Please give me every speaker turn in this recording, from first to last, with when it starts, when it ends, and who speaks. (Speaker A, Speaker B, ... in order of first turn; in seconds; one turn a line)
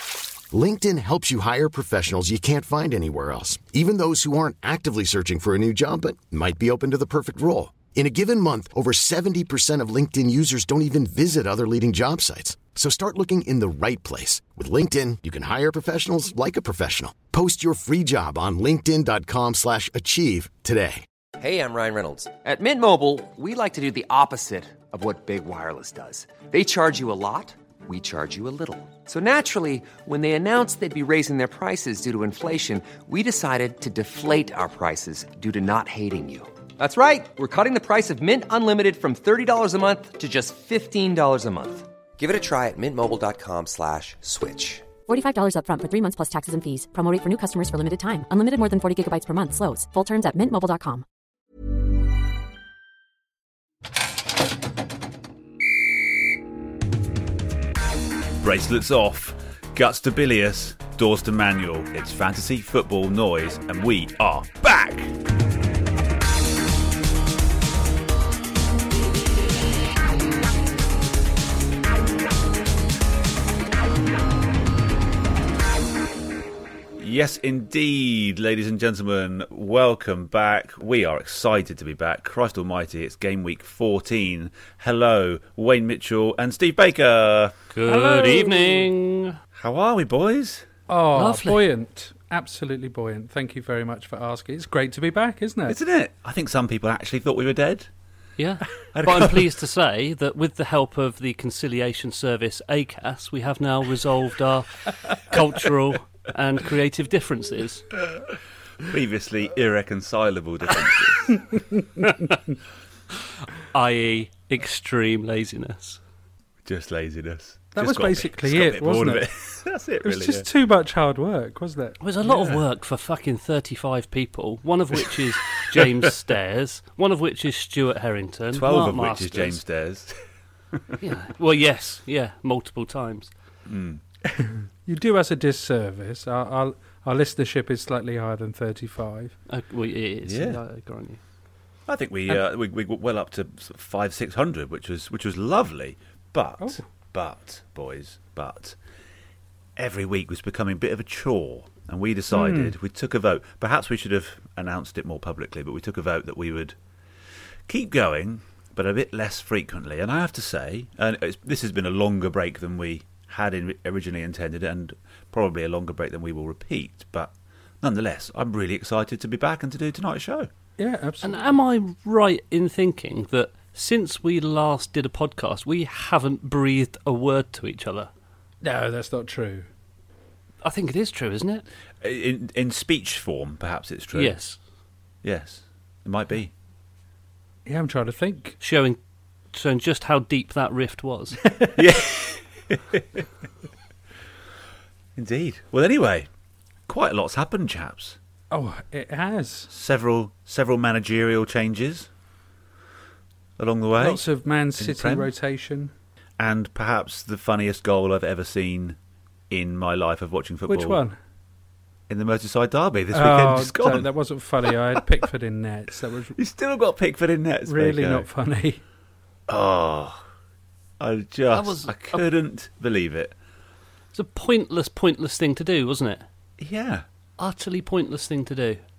Speaker A: 0.5-21.0
Speaker B: 21.4-44.9
Speaker C: 45.1-51.0
Speaker D: 58.4-65.2
Speaker D: 77.0-87.6
Speaker E: 87.7-89.4
Speaker F: 87.9-88.9
Speaker D: 89.5-90.7
Speaker F: 90.9-95.8
Speaker E: 91.1-91.6
Speaker D: 95.7-97.9
Speaker E: 98.4-107.9
Speaker D: 98.9-99.5
Speaker D: 108.8-111.5
Speaker E: 113.7-116.0
Speaker D: 116.7-120.5
Speaker F: 117.8-119.3
Speaker F: 120.0-122.0
Speaker E: 122.0-129.6
Speaker D: 122.2-122.6
Speaker D: 125.7-126.1
Speaker D: 128.5-130.2
Speaker D: 130.7-131.0
Speaker E: 131.0-133.3
Speaker D: 133.7-134.0
Speaker F: 134.3-139.3
Speaker E: 139.5-141.2
Speaker D: 140.2-140.6
Speaker D: 141.9-148.8
Speaker F: 146.6-146.8
Speaker D: 149.8-156.8
Speaker F: 152.3-152.7
Speaker D: 157.7-170.5
Speaker F: 170.8-171.5
Speaker E: 171.2-178.1
Speaker F: 178.6-179.7
Speaker E: 180.6-181.6
Speaker D: 182.0-184.4
Speaker E: 184.1-184.6
Speaker D: 185.2-186.5
Speaker F: 187.7-188.6
Speaker E: 188.6-189.0
Speaker E: 189.5-191.4
Speaker D: 191.8-193.3
Speaker D: 195.2-196.3
Speaker D: 196.9-198.2
Speaker F: 198.5-199.7
Speaker D: 199.7-202.1
Speaker D: 203.6-204.2
Speaker F: 204.0-205.9
Speaker D: 204.8-205.3
Speaker D: 206.4-209.0
Speaker D: 209.5-211.0
Speaker F: 210.7-211.2
Speaker D: 212.1-214.1
Speaker F: 213.1-216.4
Speaker D: 216.4-218.3
Speaker F: 217.7-218.8
Speaker D: 219.5-220.2
Speaker D: 221.0-223.3
Speaker E: 221.5-222.2
Speaker E: 224.1-226.2
Speaker D: 226.6-227.1
Speaker E: 227.4-228.8